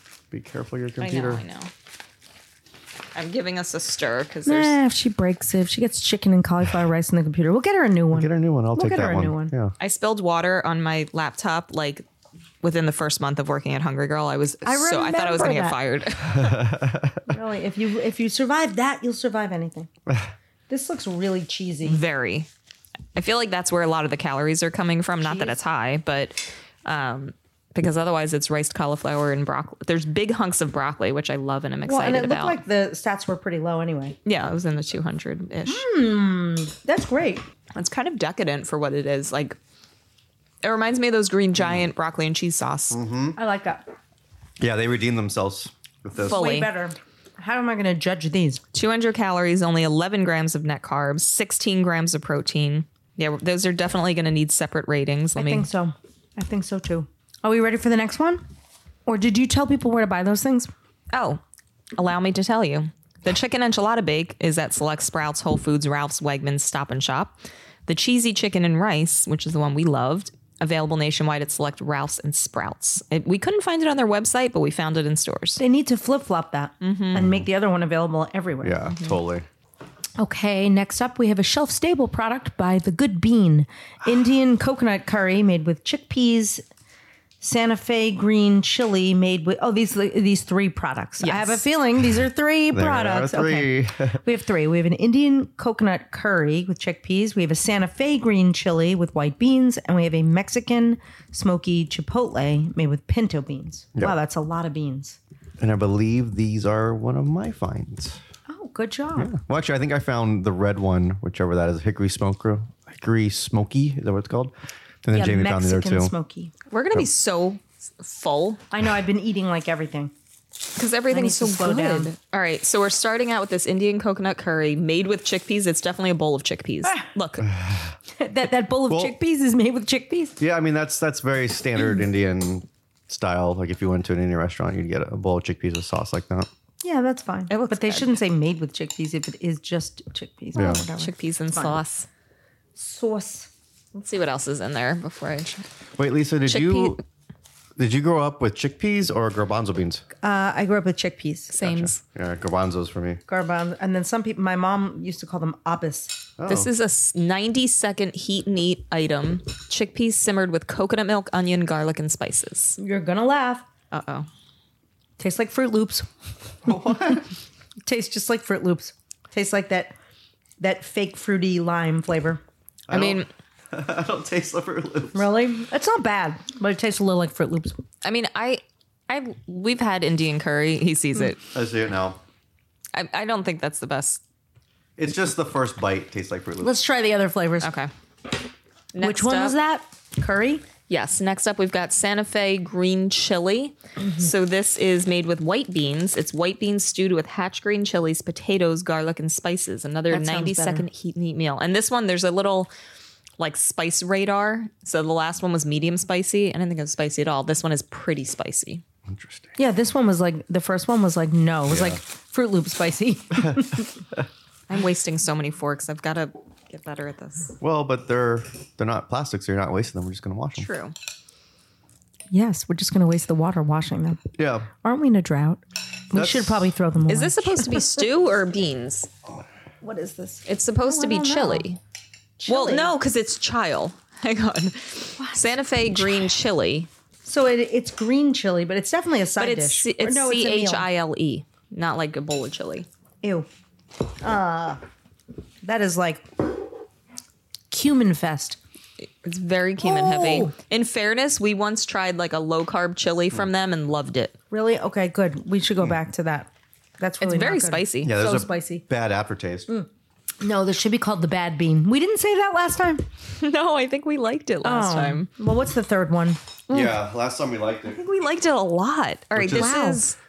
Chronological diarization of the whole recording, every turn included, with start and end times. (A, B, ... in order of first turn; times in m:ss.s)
0:00.3-0:01.4 A
0:01.0-0:01.7 B
0:03.1-0:04.8 B
0:04.4-0:09.5 C
0:08.1-0:09.7 A
0:09.8-0:12.0 B
0:12.6-0:16.6 B
0:14.6-0:15.8 C
0:16.3-0:17.3 A
0:17.3-0:19.9 C
0:20.7-0:22.0 C
0:21.8-0:22.5 B
0:23.1-0:32.6 B
0:25.2-0:25.6 C
0:31.8-0:34.2 C
0:34.2-0:35.8 B
0:35.7-0:37.4 C
0:37.7-0:39.6 B
0:40.6-0:43.0 B
0:41.6-0:41.8 A
0:42.9-0:43.4 A
0:43.4-0:43.8 C
0:44.6-0:46.4 A
0:46.2-0:48.6 C
0:46.2-0:46.7 B
0:48.7-0:55.7 B
0:55.4-0:58.4 C
0:59.0-1:00.7 C
1:01.1-1:01.4 B
1:02.0-1:15.6 B
1:15.6-1:18.8 C
1:16.8-1:17.2 B
1:17.1-1:17.4 A
1:18.6-1:19.4 A
1:18.9-1:19.2 B
1:20.2-1:26.6 C
1:27.4-1:45.2 C
1:31.2-1:31.6 B
1:32.7-1:34.2 A
1:45.6-1:48.2 A
1:48.5-1:49.3 C
1:49.2-1:56.1 A
1:55.1-1:56.5 C
1:56.7-1:58.6 B
1:58.7-2:00.1 C
2:00.8-2:07.5 B
2:01.1-2:02.1 C
2:07.5-2:08.0 A
2:08.2-2:10.4 C
2:08.9-2:09.1 A
2:10.4-2:16.5 A
2:16.8-2:21.8 C
2:17.5-2:18.2 B
2:20.5-2:20.8 A
2:20.6-2:22.1 B
2:22.8-2:23.5 C
2:23.9-2:25.7 B
2:26.0-2:27.0 A
2:26.5-2:27.0 B
2:27.8-2:30.0 A
2:30.2-2:31.5 C
2:31.5-2:32.0 B
2:31.6-2:33.2 A
2:33.3-2:36.2 C
2:36.4-2:36.7 A
2:36.5-2:42.8 B
2:42.8-2:43.6 C
2:43.9-2:44.3 B
2:45.2-2:46.1 C
2:46.6-2:47.3 A
2:46.7-2:47.2 C
2:47.8-2:49.9 C
2:50.6-2:52.4 C
2:52.9-2:55.3 A
2:52.9-2:53.3 B
2:55.1-2:57.8 C
2:58.0-3:01.4 B
3:01.5-3:02.2 A
3:02.9-3:04.2 B
3:05.0-3:06.7 A
3:06.6-3:07.7 C
3:07.6-3:07.9 B
3:08.9-3:09.5 B
3:09.0-3:10.6 C
3:10.9-3:22.7 B
3:14.0-3:14.3 C
3:20.1-3:20.8 C
3:23.4-3:28.8 B
3:29.1-3:29.5 A
3:29.6-3:33.9 C
3:31.7-3:32.0 A
3:34.7-3:37.6 B
3:37.6-3:40.7 A
3:40.6-3:40.9 B
3:42.3-3:44.3 C
3:44.4-3:44.7 A
3:44.8-3:48.0 C
3:46.1-3:46.7 A
3:47.1-3:49.1 B
3:49.8-3:51.6 C
3:50.4-3:51.8 B
3:52.4-3:52.9 C
3:52.5-3:56.9 B
3:55.2-3:56.3 C
3:57.2-4:00.9 C
3:59.4-4:02.9 B
4:03.2-4:03.5 C
4:04.2-4:04.8 C
4:05.6-4:06.4 C
4:07.7-4:08.6 C
4:09.0-4:14.3 B
4:09.8-4:10.5 C
4:14.5-4:18.8 C
4:17.2-4:18.2 B
4:18.0-4:19.7 A
4:20.4-4:23.0 C
4:23.3-4:25.3 B
4:24.6-4:26.4 C
4:26.7-4:27.0 B
4:26.7-4:28.0 A
4:27.9-4:30.2 B
4:29.3-4:29.7 A
4:29.5-4:30.0 C